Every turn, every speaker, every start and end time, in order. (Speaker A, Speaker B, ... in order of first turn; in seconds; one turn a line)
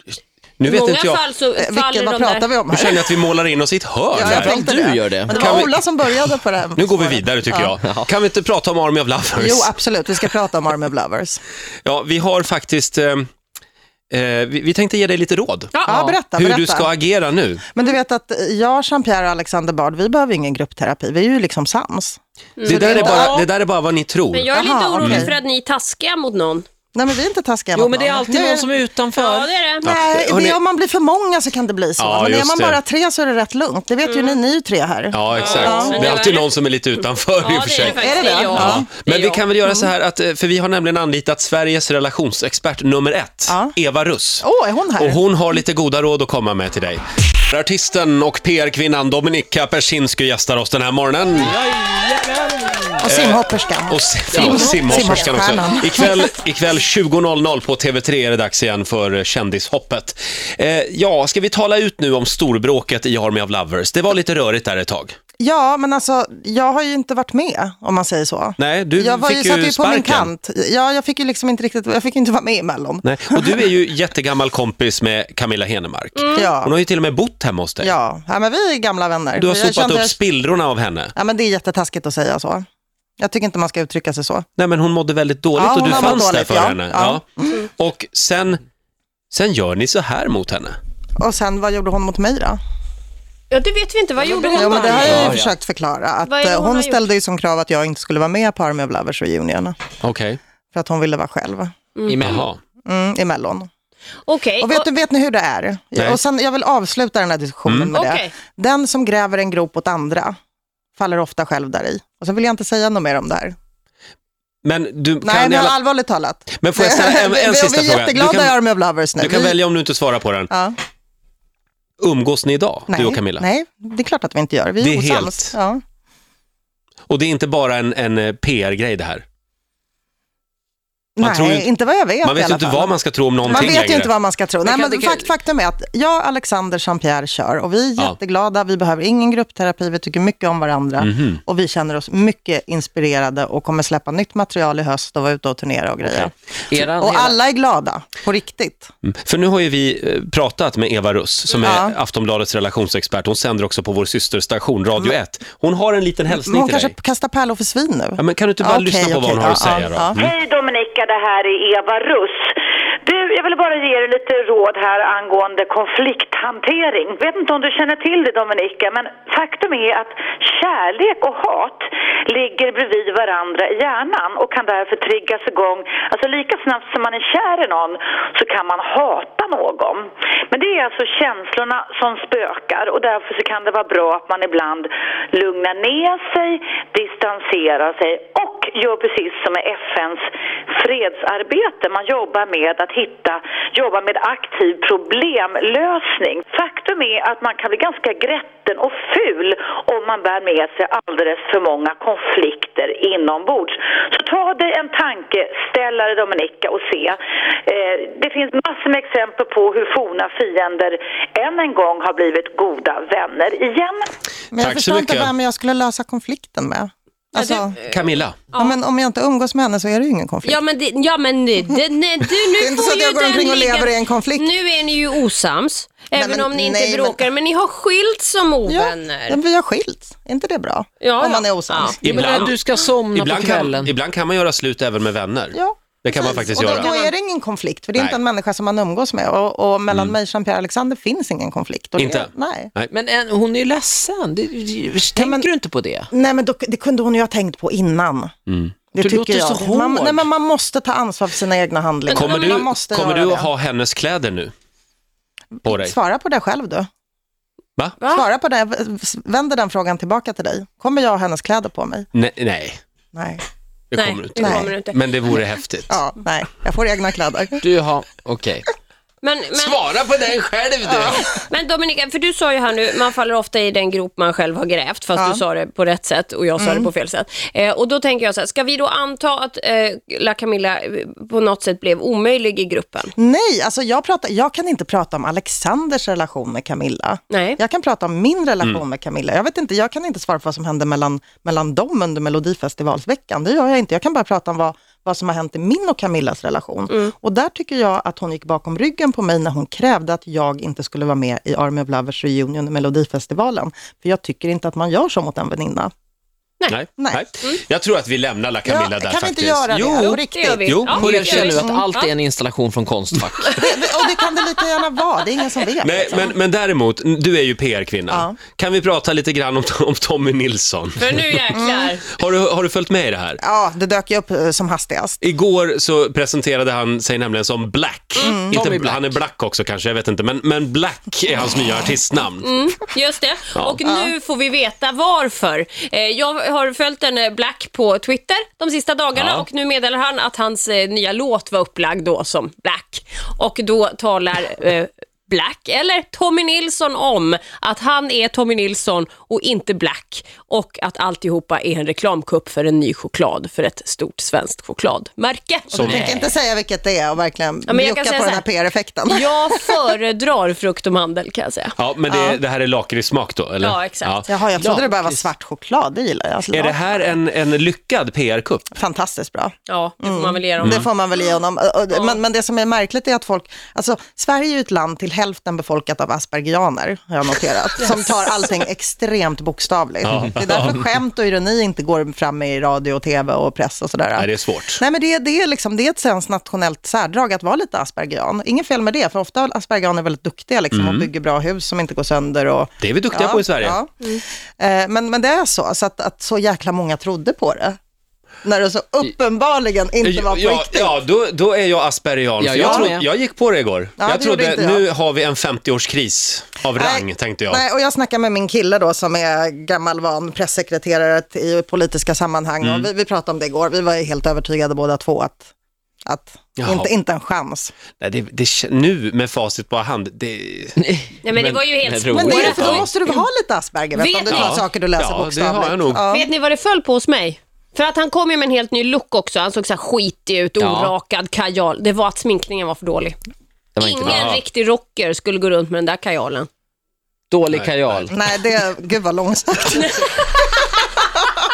Speaker A: 0.6-1.2
Speaker B: 0.7-2.5
Speaker C: 1.6-3.0
Speaker A: 2.7-4.6
Speaker C: 4.2-7.7
Speaker D: 4.2-5.5
Speaker A: 5.3-10.3
Speaker D: 7.8-8.1
Speaker C: 9.4-11.4
Speaker A: 11.8-13.3
Speaker A: 14.1-15.7
Speaker B: 15.7-16.2
Speaker C: 15.8-16.9
Speaker A: 16.4-17.6
Speaker C: 17.7-23.4
Speaker B: 22.6-23.5
Speaker A: 22.6-25.3
Speaker B: 24.3-26.7
Speaker C: 24.5-25.3
Speaker C: 26.9-28.7
Speaker D: 27.7-29.6
Speaker B: 29.2-29.9
Speaker C: 29.8-36.1
Speaker A: 29.8-30.6
Speaker A: 32.0-32.8
Speaker B: 34.1-34.4
Speaker A: 35.1-44.5
Speaker B: 35.3-36.5
Speaker B: 37.4-39.4
Speaker C: 37.8-38.9
Speaker C: 39.6-39.9
Speaker C: 43.5-43.7
Speaker C: 44.4-45.2
Speaker A: 45.0-51.5
Speaker D: 51.4-53.0
Speaker C: 53.0-56.3
Speaker A: 53.0-65.2
Speaker D: 54.3-54.9
Speaker C: 65.4-73.7
Speaker A: 68.6-70.3
Speaker A: 73.0-77.9
Speaker C: 76.3-76.8
Speaker C: 77.8-80.2
Speaker A: 79.4-81.1
Speaker C: 81.2-82.7
Speaker C: 83.2-84.5
Speaker A: 84.6-88.6
Speaker C: 85.6-87.6
Speaker A: 89.3-90.8
Speaker C: 91.2-92.6
Speaker B: 93.5-95.4
Speaker D: 94.3-95.6
Speaker C: 94.5-99.8
Speaker B: 96.2-97.0
Speaker A: 100.0-100.4
Speaker C: 100.7-101.7
Speaker B: 102.0-102.2
Speaker D: 102.1-102.5
Speaker A: 102.2-102.6
Speaker C: 102.8-103.7
Speaker B: 104.3-104.8
Speaker C: 104.6-110.4
Speaker A: 107.7-108.0
Speaker B: 107.9-108.3
Speaker C: 111.0-113.6
Speaker A: 114.6-115.8
Speaker C: 115.2-119.6
Speaker A: 116.6-118.6
Speaker A: 119.2-120.5
Speaker C: 120.5-120.8
Speaker A: 122.0-123.5
Speaker C: 122.9-125.8
Speaker A: 124.8-125.5
Speaker A: 127.1-129.2
Speaker C: 131.2-148.9
Speaker A: 131.2-131.7
Speaker A: 132.2-134.1
Speaker D: 134.6-135.4
Speaker A: 141.0-141.4
Speaker D: 146.7-147.4
Speaker A: 149.0-156.9
Speaker C: 151.6-151.9
Speaker C: 156.4-160.2
Speaker A: 158.2-160.3
Speaker E: 160.3-162.4
Speaker E: 163.1-190.2
Speaker E: 190.8-214.1
Speaker C: 214.5-217.8
Speaker A: 214.6-215.3
Speaker B: 217.4-218.8
Speaker A: 217.9-218.4
Speaker C: 218.6-220.6
Speaker B: 220.4-229.4
Speaker C: 222.4-224.5
Speaker C: 226.1-227.3
Speaker C: 228.7-232.2
Speaker B: 231.0-232.5
Speaker A: 232.0-232.6
Speaker D: 232.0-233.9
Speaker A: 233.1-236.9
Speaker C: 235.5-242.7
Speaker B: 236.7-237.1
Speaker A: 242.0-242.9
Speaker D: 242.9-246.1
Speaker C: 245.2-245.5
Speaker C: 246.1-248.3
Speaker A: 248.5-248.8
Speaker C: 248.9-253.5
Speaker D: 249.0-250.3
Speaker A: 252.1-254.5
Speaker B: 252.2-252.6
Speaker C: 255.6-256.9
Speaker A: 255.7-255.9
Speaker B: 258.0-258.3
Speaker C: 258.1-262.1
Speaker A: 262.1-262.8
Speaker C: 263.1-263.4
Speaker A: 263.9-266.0
Speaker B: 263.9-265.0
Speaker C: 264.4-264.7
Speaker C: 265.9-267.6
Speaker D: 267.6-268.7
Speaker B: 269.2-269.8
Speaker D: 269.5-271.3
Speaker B: 271.2-283.1
Speaker C: 275.1-275.4
Speaker C: 276.6-276.9
Speaker C: 283.2-305.9
Speaker B: 287.3-287.6
Speaker A: 306.7-311.6
Speaker C: 308.6-311.9
Speaker B: 309.9-312.1
Speaker D: 310.9-313.6
Speaker B: 313.4-313.7
Speaker C: 313.5-316.3
Speaker A: 315.8-321.4
Speaker C: 318.1-318.4
Speaker B: 321.0-322.1
Speaker C: 321.5-321.9
Speaker A: 322.1-323.4
Speaker C: 323.4-325.2
Speaker A: 325.2-332.5
Speaker B: 328.2-328.5
Speaker C: 328.2-328.6
Speaker D: 328.5-329.1
Speaker B: 332.4-356.3
Speaker A: 333.6-333.8
Speaker C: 333.9-334.1
Speaker A: 339.1-339.5
Speaker A: 355.7-356.1
Speaker C: 355.8-359.7
Speaker B: 357.7-358.4
Speaker B: 359.1-361.8
Speaker A: 361.8-364.3
Speaker C: 362.1-362.4
Speaker B: 363.6-364.2
Speaker C: 364.3-367.2
Speaker D: 364.6-365.2
Speaker A: 366.5-368.7
Speaker C: 368.8-397.8
Speaker B: 369.7-370.9
Speaker A: 380.0-380.8
Speaker A: 384.2-384.8
Speaker A: 390.7-391.1
Speaker A: 392.8-393.8
Speaker C: 398.4-401.0
Speaker A: 400.0-407.6
Speaker D: 402.4-403.1
Speaker C: 402.6-402.9
Speaker C: 404.0-404.9
Speaker C: 406.7-415.5
Speaker A: 412.6-412.9
Speaker C: 416.1-417.7
Speaker A: 416.6-416.9
Speaker A: 418.0-420.8
Speaker D: 420.8-422.9
Speaker B: 421.2-422.9
Speaker C: 422.1-426.3
Speaker A: 422.5-422.9
Speaker B: 423.9-424.6
Speaker A: 424.3-426.0
Speaker B: 426.1-433.2
Speaker D: 430.6-430.9
Speaker D: 433.8-434.4
Speaker B: 433.8-436.5
Speaker A: 434.1-434.4
Speaker D: 437.3-438.2
Speaker C: 438.1-440.9
Speaker B: 439.8-440.2